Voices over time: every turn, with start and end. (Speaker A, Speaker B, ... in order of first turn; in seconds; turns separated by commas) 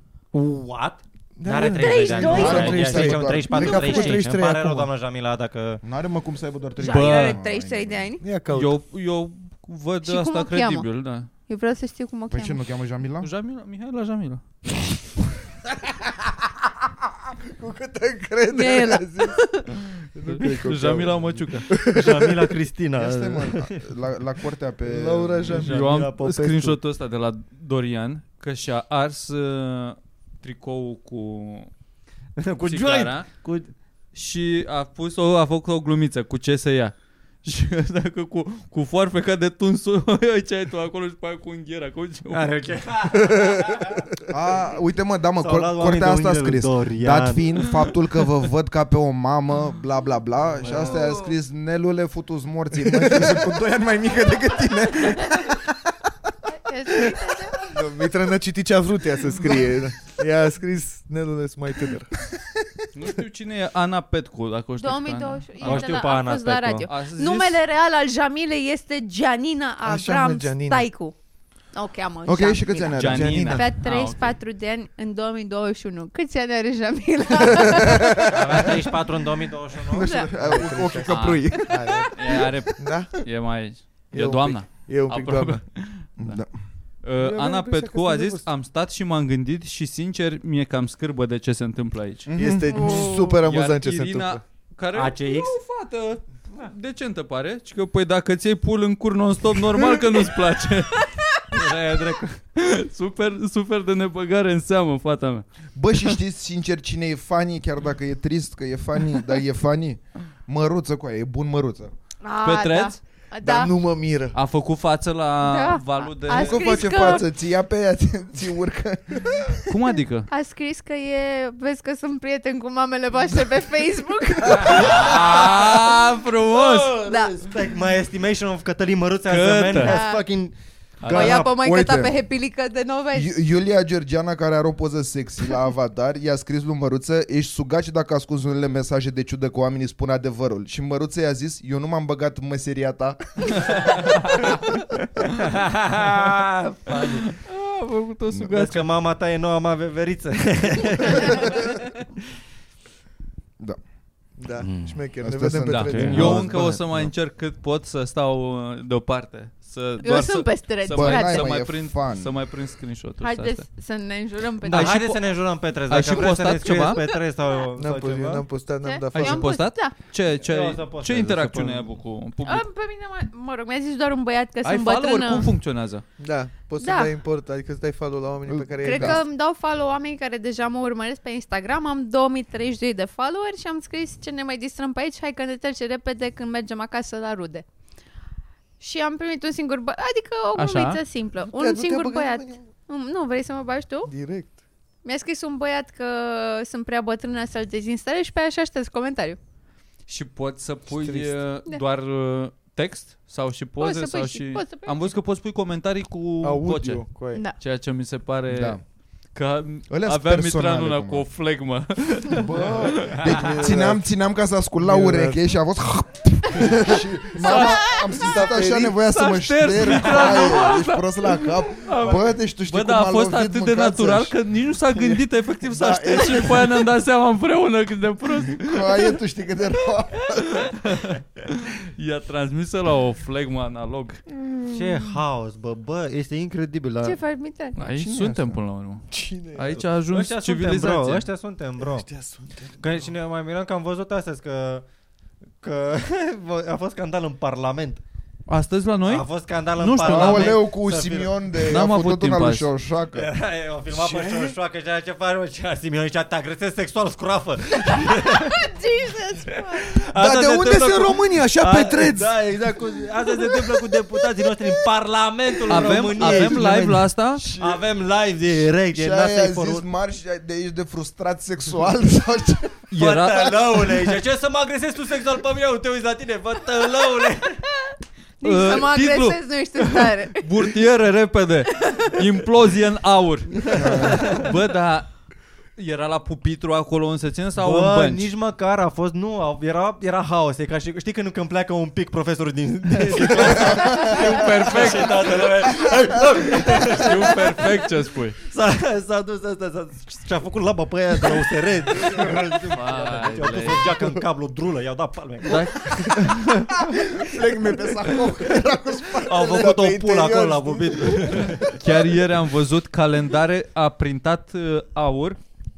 Speaker A: 0.3-5.8, Speaker B: 1.4-4.9, Speaker C: 1.6-4.2, Speaker D: 2.2-4.0, Speaker D: 5.8-8.1, Speaker C: 6.8-8.2, Speaker E: 6.8-7.4, Speaker B: 8.2-8.7, Speaker E: 8.5-11.3, Speaker C: 10.0-10.9, Speaker C: 11.5-12.6, Speaker D: 12.3-13.3, Speaker E: 13.2-14.4, Speaker B: 17.4-19.4, Speaker C: 18.5-19.5, Speaker B: 20.1-22.5, Speaker E: 20.2-21.7, Speaker A: 21.9-23.8, Speaker D: 23.0-25.6, Speaker B: 24.8-26.7, Speaker A: 25.5-26.5, Speaker E: 25.6-31.7, Speaker A: 32.4-33.7, Speaker E: 32.6-33.3, Speaker E: 34.1-42.5, Speaker A: 42.3-44.0, Speaker B: 43.2-43.6, Speaker D: 44.3-56.3, Speaker A: 45.4-47.5, Speaker E: 50.6-51.0, Speaker B: 52.9-53.4, Speaker C: 56.5-57.5, Speaker D: 56.9-57.4, Speaker B: 57.7-62.1, Speaker E: 62.9-66.1, Speaker C: 64.8-71.1, Speaker A: 65.6-66.9, Speaker E: 66.9-67.6, Speaker B: 69.8-70.9, Speaker C: 71.7-78.6, Speaker D: 72.2-73.5, Speaker E: 73.0-74.3, Speaker B: 73.0-73.6, Speaker D: 77.8-78.3, Speaker A: 78.3-80.1, Speaker D: 79.9-81.9, Speaker C: 80.0-80.3, Speaker B: 80.4-81.1, Speaker E: 81.0-86.4, Speaker B: 81.7-82.1, Speaker B: 82.8-83.2, Speaker B: 84.1-85.6, Speaker D: 86.2-86.5, Speaker E: 87.0-101.7, Speaker B: 87.2-88.4, Speaker D: 92.3-92.9, Speaker B: 92.3-94.4, Speaker C: 92.8-93.1, Speaker A: 94.9-95.5, Speaker A: 101.5-102.4, Speaker E: 102.5-105.5, Speaker D: 105.8-111.9, Speaker C: 112.2-113.7, Speaker E: 112.4-113.0, Speaker B: 113.4-114.4, Speaker E: 114.3-116.8, Speaker C: 115.4-117.3, Speaker D: 116.3-119.7, Speaker E: 119.7-120.3, Speaker C: 120.3-125.0, Speaker E: 124.6-127.0, Speaker A: 124.7-130.5, Speaker C: 127.0-127.4, Speaker E: 129.3-130.0, Speaker C: 129.7-130.2, Speaker E: 131.0-131.4, Speaker D: 131.0-132.2, Speaker C: 131.1-133.4, Speaker D: 133.1-144.1, Speaker A: 145.2-147.3, Speaker E: 146.9-148.9, Speaker A: 148.4-151.8, Speaker B: 154.4-156.5, Speaker A: 154.6-155.0, Speaker D: 155.2-157.1, Speaker E: 155.7-163.7, Speaker A: 155.9-156.4, Speaker C: 160.0-161.5, Speaker D: 160.9-162.3, Speaker C: 163.2-164.9, Speaker E: 164.7-165.2, Speaker A: 164.7-168.4, Speaker E: 165.9-167.1, Speaker B: 167.8-169.5, Speaker C: 168.8-169.9, Speaker E: 169.1-172.6, Speaker A: 170.3-171.9, Speaker C: 172.4-175.5, Speaker E: 174.6-176.0, Speaker B: 176.2-179.2, Speaker C: 176.8-177.1, Speaker D: 178.5-179.2, Speaker C: 178.8-187.6, Speaker C: 188.8-194.1, Speaker E: 190.5-191.0, Speaker B: 191.4-192.6, Speaker B: 194.1-194.6, Speaker C: 195.0-199.4, Speaker E: 200.1-208.8, Speaker B: 200.9-201.4, Speaker C: 203.8-205.1, Speaker B: 206.4-207.5, Speaker D: 208.5-208.8, Speaker E: 209.3-213.3, Speaker D: 209.9-211.2, Speaker D: 212.3-224.3, Speaker B: 213.3-214.0, Speaker B: 214.8-215.4, Speaker B: 216.6-218.9, Speaker E: 217.4-218.2, Speaker E: 219.0-229.2, Speaker D: 224.9-226.9, Speaker D: 228.6-230.7, Speaker E: 230.3-234.2, Speaker D: 234.3-235.1, Speaker A: 234.7-237.2, Speaker C: 237.0-237.8, Speaker E: 237.8-241.3, Speaker D: 237.8-238.6, Speaker B: 239.1-239.8, Speaker A: 239.8-242.1, Speaker B: 241.8-243.1, Speaker A: 242.8-244.8, Speaker A: 245.6-248.0, Speaker E: 248.5-250.6, Speaker A: 249.1-251.3, Speaker D: 250.0-253.3, Speaker E: 251.7-252.7, Speaker A: 253.1-258.6, Speaker B: 254.0-254.5, Speaker C: 258.0-259.9, Speaker A: 259.9-269.8, Speaker B: 260.1-262.4, Speaker E: 265.7-267.4, Speaker D: 265.8-266.7, Speaker D: 267.4-267.8, Speaker D: 268.5-272.9, Speaker E: 272.9-273.6, Speaker A: 273.0-277.6, Speaker C: 277.8-280.4, Speaker E: 278.4-285.1, Speaker C: 281.8-282.1, Speaker A: 283.6-284.5, Speaker D: 283.7-284.4, Speaker E: 285.8-288.3, Speaker A: 287.6-297.9, Speaker D: 293.5-294.1, Speaker E: 293.9-295.7, Speaker E: 296.6-298.4, Speaker A: 298.4-306.1, Speaker E: 302.7-303.9, Speaker E: 305.5-306.8, Speaker D: 306.8-309.9, Speaker A: 309.2-311.7, Speaker B: 309.4-311.7, Speaker D: 311.2-311.6, Speaker E: 311.7-315.4